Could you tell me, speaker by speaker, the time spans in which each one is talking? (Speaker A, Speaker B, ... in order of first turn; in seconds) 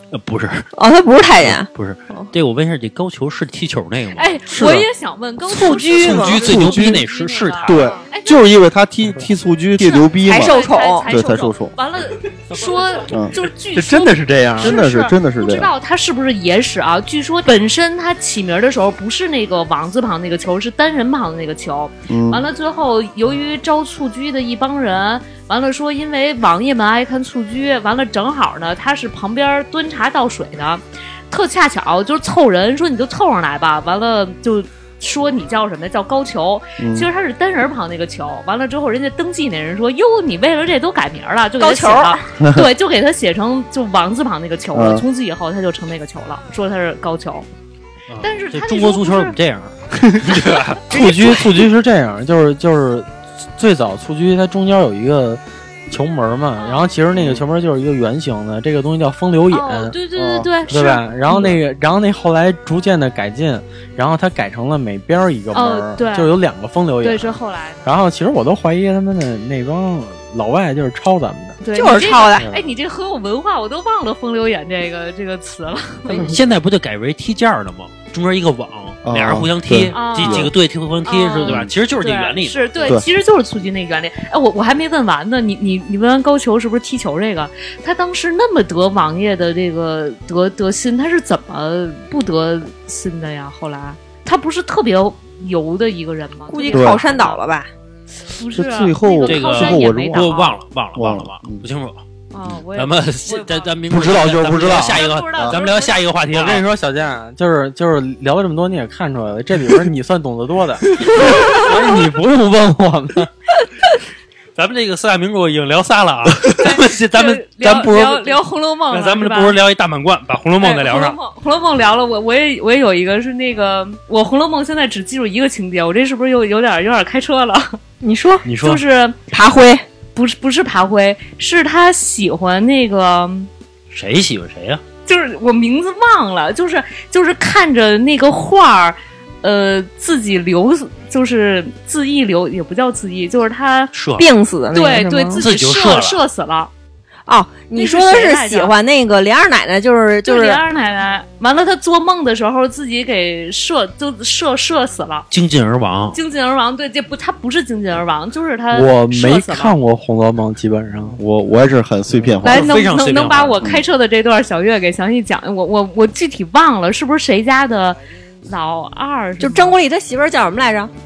Speaker A: 0.1-0.7, 1.4-4.4, 5.7-7.9, 48.1-51.4, 76.1-83.0, 99.3-102.0, 102.7-106.6, 114.6-121.2, 128.4-128.8, 133.9-134.8, 143.9-144.3, 145.4-146.2, 155.3-156.2, 162.4-163.6
Speaker B: 0.8-2.3, 5.5-6.5, 10.2-11.1, 41.6-42.2, 71.7-72.5, 96.5-97.7, 128.0-128.5, 129.3-129.8, 144.2-145.4, 147.3-150.6, 169.4-170.9
Speaker C: 4.2-8.4, 9.8-47.5, 48.2-49.4, 56.6-56.9, 59.5-61.5, 65.5-66.3, 67.0-67.9, 71.6-76.4, 79.9-80.5, 81.1-97.4, 98.2-100.6, 102.3-103.7, 104.7-106.1, 116.6-119.6, 120.6-127.8, 128.6-129.2, 130.2-133.5, 135.1-143.9, 144.7-146.7, 147.7-148.7, 150.2-155.3, 156.1-159.8, 162.4-169.8
Speaker D: 4.5-4.9, 6.5-7.0, 7.7-11.7, 13.1-13.4, 14.5-15.7, 22.1-22.5, 36.8-37.1, 42.4-42.7, 44.7-45.0, 57.1-57.4, 79.0-80.5, 81.5-81.7, 96.7-97.0, 98.5-100.4, 101.0-101.6, 103.9-105.6, 161.2-162.7
Speaker E: 13.7-14.8, 50.9-60.0, 60.7-71.6, 72.4-72.7, 106.3-113.3, 158.7-161.2